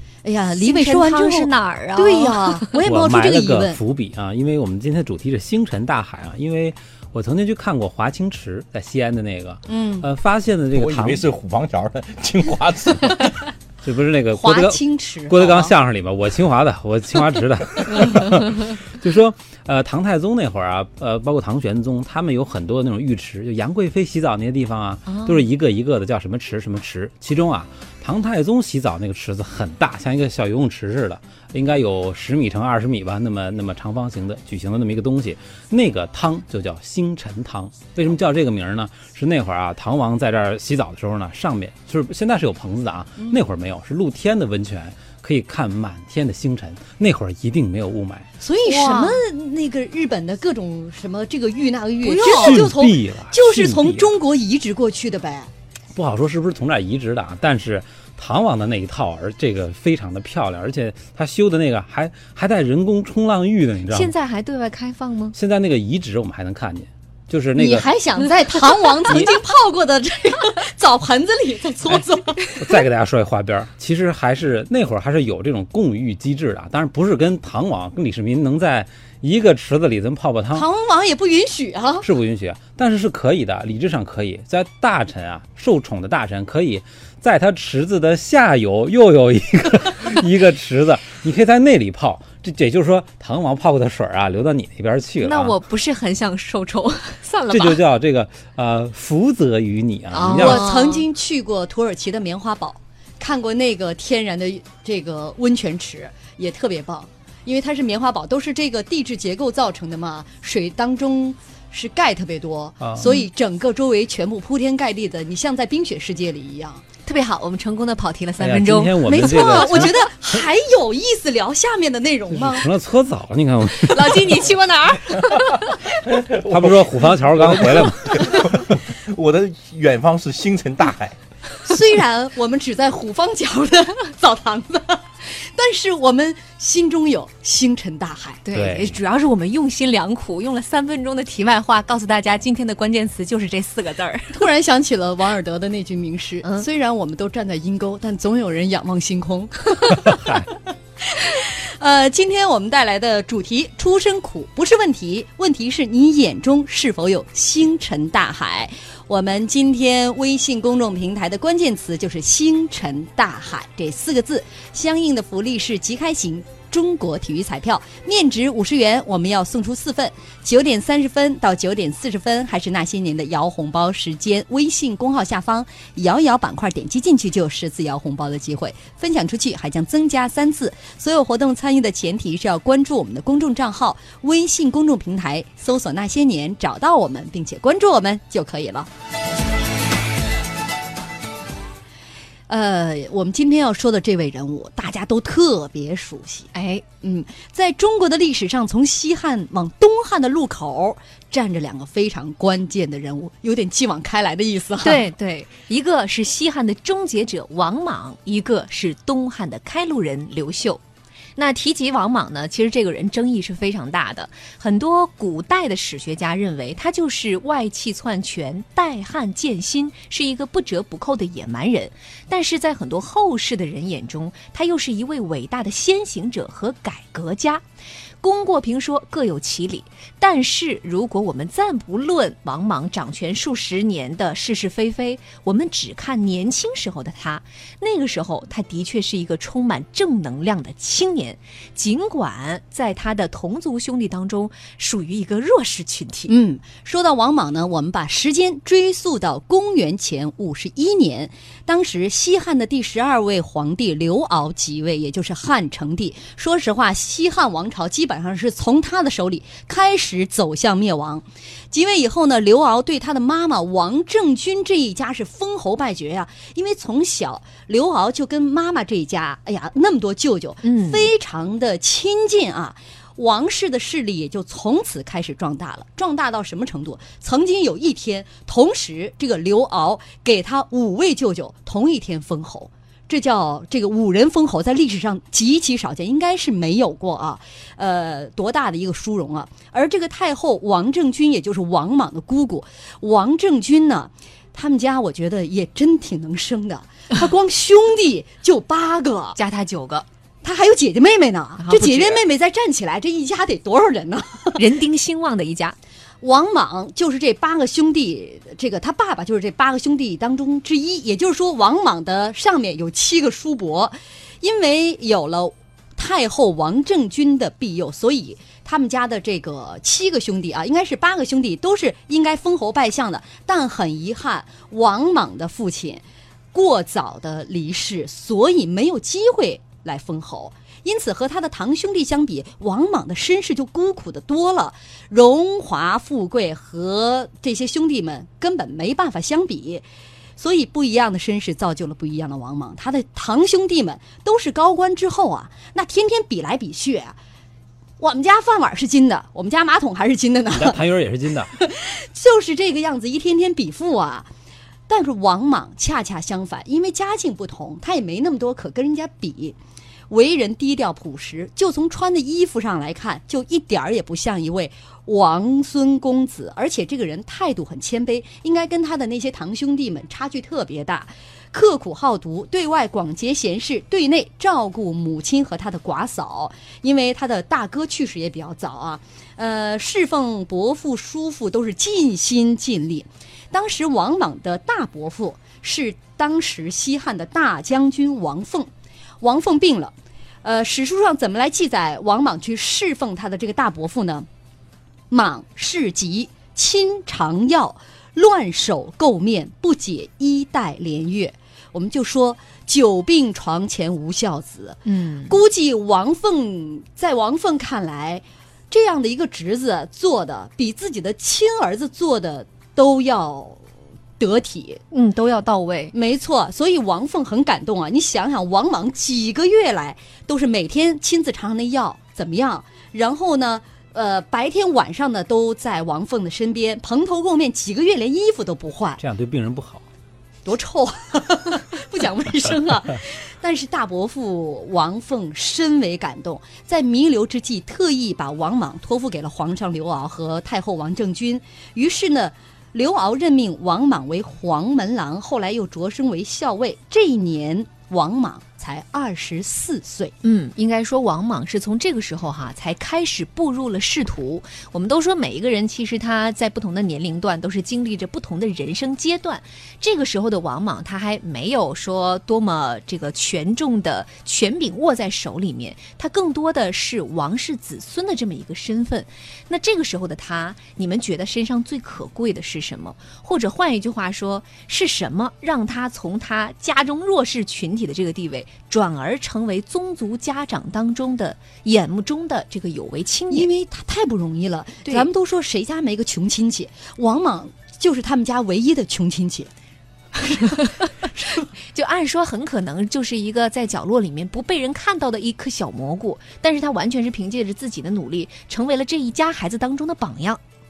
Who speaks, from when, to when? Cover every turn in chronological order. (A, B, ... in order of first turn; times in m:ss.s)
0:00.2-0:03.8 A
0:00.6-0:02.8 B
0:02.8-0:11.2 C
0:09.7-0:10.1 A
0:10.7-0:13.4 D
0:13.8-0:48.3 C
0:14.3-0:15.7 A
0:25.1-0:25.4 B
0:48.4-0:55.5 A
0:48.6-0:49.2 B
0:52.0-0:52.7 B
0:52.2-0:54.1 C
0:55.9-1:04.1 C
1:03.9-1:05.3 B
1:05.3-1:07.9 C
1:07.5-1:12.8 A
1:12.6-1:20.7 C
1:20.5-1:22.0 A
1:22.0-1:35.6 C
1:35.2-1:37.8 B
1:37.5-1:40.6 C
1:40.1-1:41.0 B
1:40.3-1:56.8 A
1:52.8-1:53.1 C
1:57.0-1:59.9 B
1:58.4-2:00.0 C
1:59.0-2:02.7 A
2:02.3-2:04.4 C
2:03.7-2:05.8 B
2:06.2-2:11.2 D
2:06.4-2:08.8 C
2:11.6-2:18.4 A
2:18.4-2:24.5 B
2:18.5-2:19.0 C
2:24.3-2:30.6 A
2:31.1-3:08.9 A
3:12.5-3:16.5 A
3:16.5-3:16.8 B
3:17.0-3:25.0 A
3:24.8-3:30.8 B
3:31.4-3:47.6 B
3:48.2-4:06.3 B
4:06.3-4:59.4 A
4:30.6-4:31.1 B
4:59.3-5:00.0 B
5:00.4-5:04.6 A
5:01.6-5:02.2 B
5:04.6-5:05.8 B
5:06.2-5:39.8 A
5:40.4-5:47.2 A
5:48.0-5:50.8 A
5:50.5-5:51.5 C
5:51.6-5:54.3 A
5:54.9-5:59.6 A
6:00.1-6:34.3 A
6:35.1-6:53.6 A
6:44.8-6:45.4 B
6:54.2-6:54.8 A
6:54.9-6:55.9 B
6:55.9-7:09.0 A
7:09.0-7:09.8 C
7:10.4-7:30.1 A
7:30.2-8:03.5 B
8:03.3-8:09.5 A
8:10.4-8:11.1 B
8:11.7-8:20.4 B